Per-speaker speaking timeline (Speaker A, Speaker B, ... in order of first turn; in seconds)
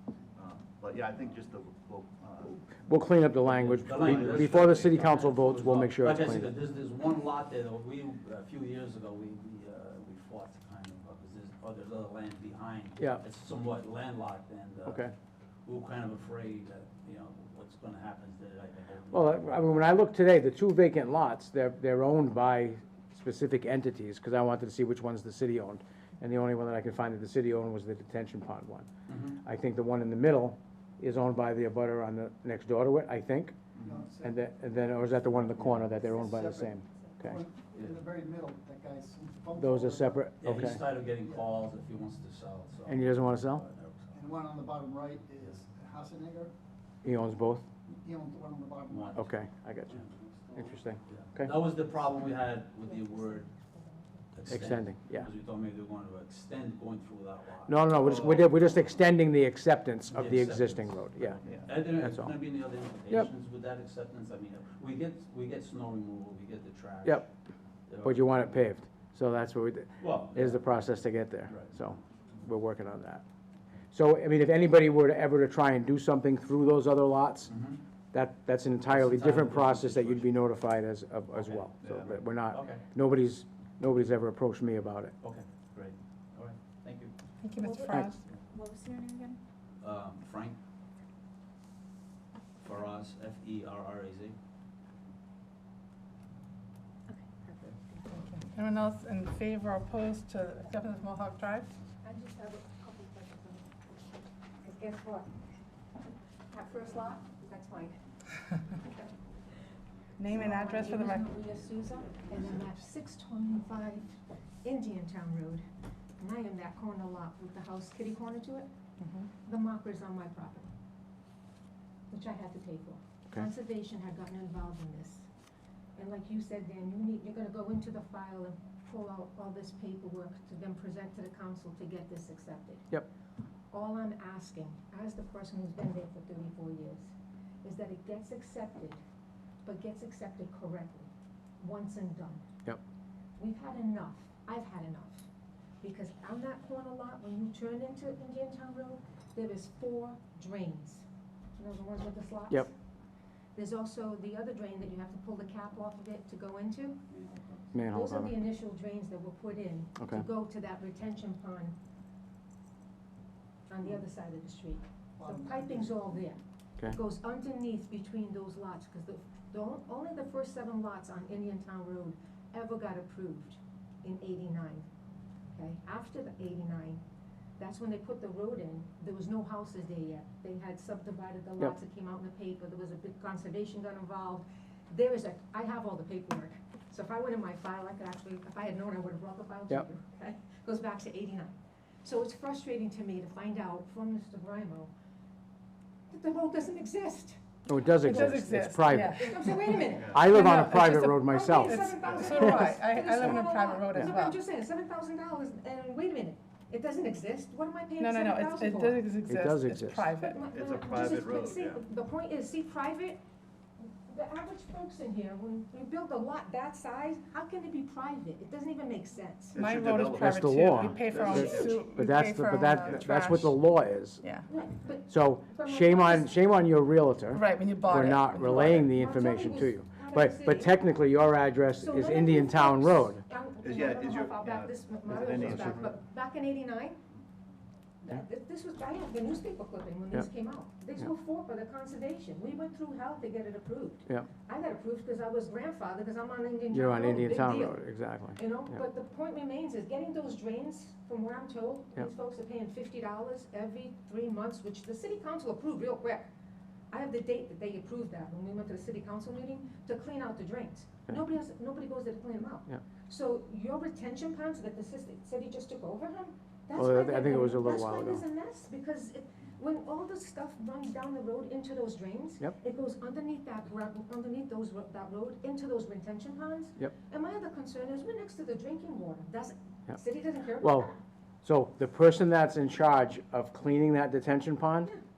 Speaker A: 0.3-2.6, 3.9-5.0, 58.0-58.5, 61.5-61.7, 81.8-82.1, 199.9-200.4, 202.0-202.5, 210.5-211.8, 219.5-221.9, 222.8-223.1, 233.6-235.9
Speaker B: 2.7-6.5, 14.8-15.1, 19.1-33.7, 34.2-37.4, 39.6-40.8, 42.9-43.6, 47.0-47.7, 49.1-50.0, 50.5-51.5, 54.5-55.3, 57.6-62.3, 68.0-73.2, 73.9-77.5, 78.1-85.1, 157.7-158.4, 160.0-160.2, 197.7-199.3, 200.1-202.6, 209.2-210.1, 220.2-224.2, 225.1-233.2, 235.2-235.7, 246.7-248.8, 266.7-268.2, 280.6-280.9, 281.4-284.9
Speaker C: 3.4-15.1, 15.7-19.8, 29.1-29.4, 40.4-44.2, 48.9-49.2, 51.0-53.5, 54.3-58.3, 60.1-67.3, 67.9-68.6, 70.0-70.9, 71.5-71.9, 77.5-77.8, 78.8-80.3, 81.3-82.8, 85.2-87.1, 89.8-90.6, 92.6-94.3
Speaker D: 33.8-34.4, 35.2-40.3, 44.1-46.5, 47.9-49.3, 50.0-50.7, 165.2-166.1
Speaker E: 52.1-54.3, 87.6-89.4, 97.1-98.4, 102.0-103.7, 104.6-105.3, 106.5-108.0, 108.7-109.1, 110.3-115.6, 116.2-118.7, 119.3-120.7, 122.1-125.3, 126.0-132.9, 133.7-137.1, 137.6-139.0, 139.6-142.4, 143.4-145.3, 145.8-151.0, 151.6-152.7, 153.5-157.1, 157.9-161.8, 163.7-174.8, 175.5-177.0, 177.6-194.9, 196.1-197.4, 198.1-198.4, 199.1-200.2, 201.1-209.1, 210.1-213.2, 213.8-219.6, 221.2-221.8, 224.5-226.6, 228.4-230.8, 231.8-237.0, 238.0-256.3, 256.9-281.0
Speaker F: 87.4-88.2, 98.1-101.7, 110.2-111.3, 198.0-204.4, 208.0-210.4, 219.5-223.7, 224.2-224.5, 227.3-228.7